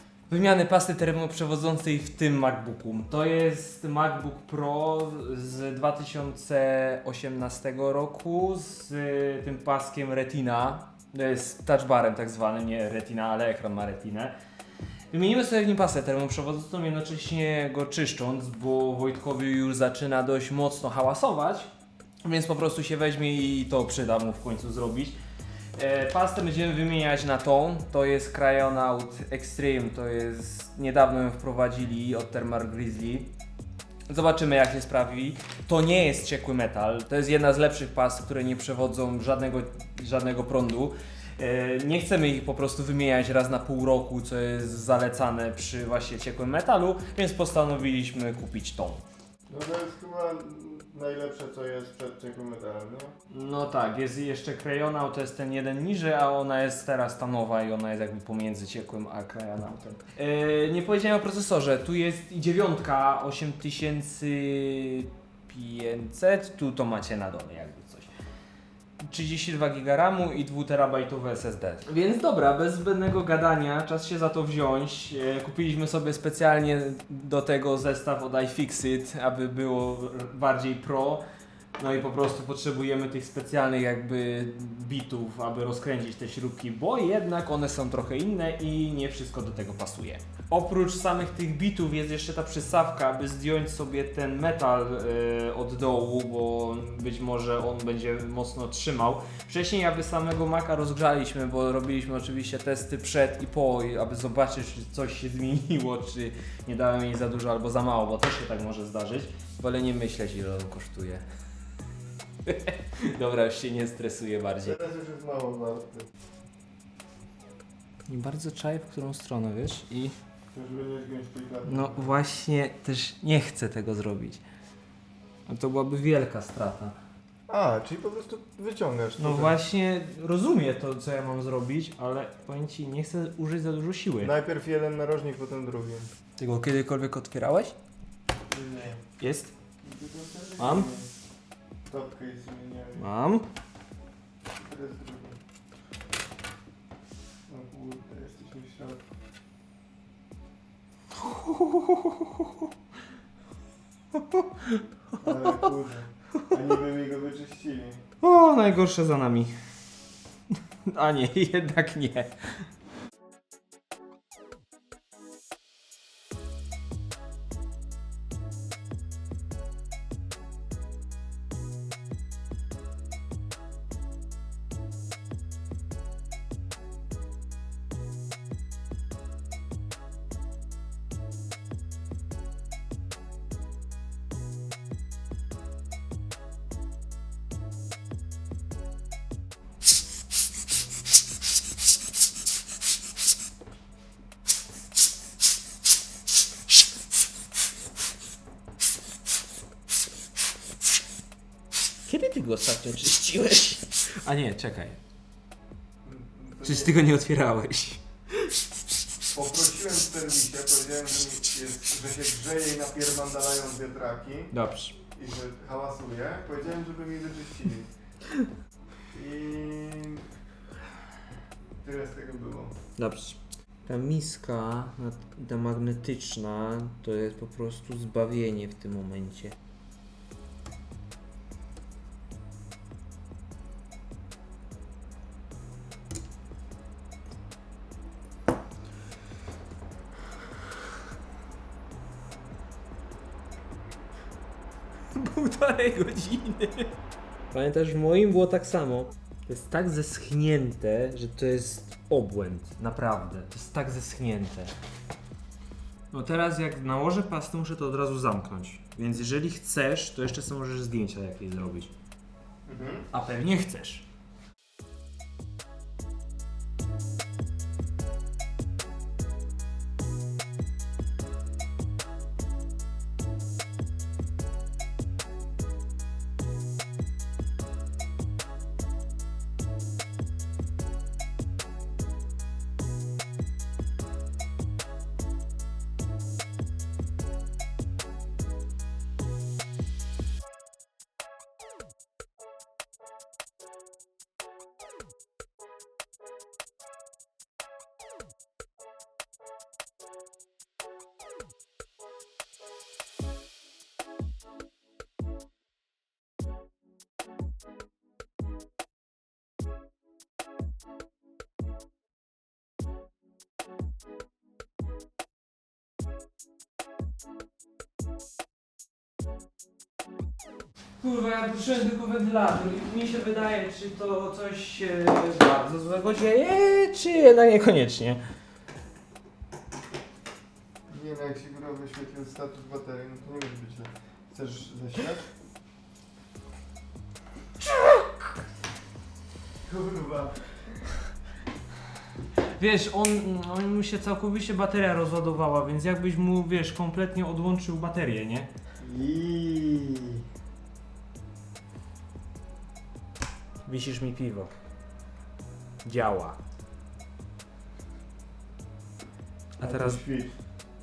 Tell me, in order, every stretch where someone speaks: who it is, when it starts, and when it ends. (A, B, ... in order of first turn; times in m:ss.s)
0:00.3-0:14.3 A
0:15.1-0:21.7 A
0:22.2-0:25.2 A
0:25.7-0:33.3 A
0:34.1-0:49.0 A
0:49.5-0:53.1 B
0:53.3-1:08.1 A
1:09.0-1:21.2 A
1:21.8-1:51.2 A
1:52.4-1:54.8 A
1:54.6-1:56.1 B
1:58.1-2:00.1 A
2:00.5-2:02.2 B
2:01.6-2:04.4 A
2:05.5-2:07.0 A
2:07.5-2:09.6 B
2:09.2-2:14.3 A
2:14.2-2:16.1 B
2:16.4-2:17.7 A
2:18.5-2:19.0 B
2:19.2-2:19.5 A
2:19.8-2:21.1 B
2:20.6-2:20.9 A
2:21.9-2:23.1 B
2:23.0-2:23.4 A
2:24.6-2:25.4 B
2:27.5-2:29.0 B
2:31.2-2:32.7 A
2:34.1-2:34.8 A
2:35.2-2:38.0 B
2:38.2-2:39.6 A
2:40.8-2:42.7 A
3:22.0-3:25.0 A
3:26.0-3:27.0 B
3:26.6-3:28.6 A
3:29.3-3:34.5 B
3:34.5-3:35.0 A
3:35.1-3:37.9 B
3:39.1-3:40.2 B
3:41.8-3:42.7 B
3:43.0-3:49.6 A
4:05.1-4:07.0 A
4:07.5-4:14.7 A
4:16.1-4:21.9 A
4:22.6-4:23.1 B
4:23.1-4:24.0 A
5:21.0-5:28.2 A
5:30.9-5:35.3 B
5:39.6-5:40.7 B
5:42.5-5:48.5 A
5:48.8-5:50.2 B
5:53.6-5:54.5 A
5:55.8-5:56.4 A
5:59.6-6:00.0 A
5:59.6-6:00.4 B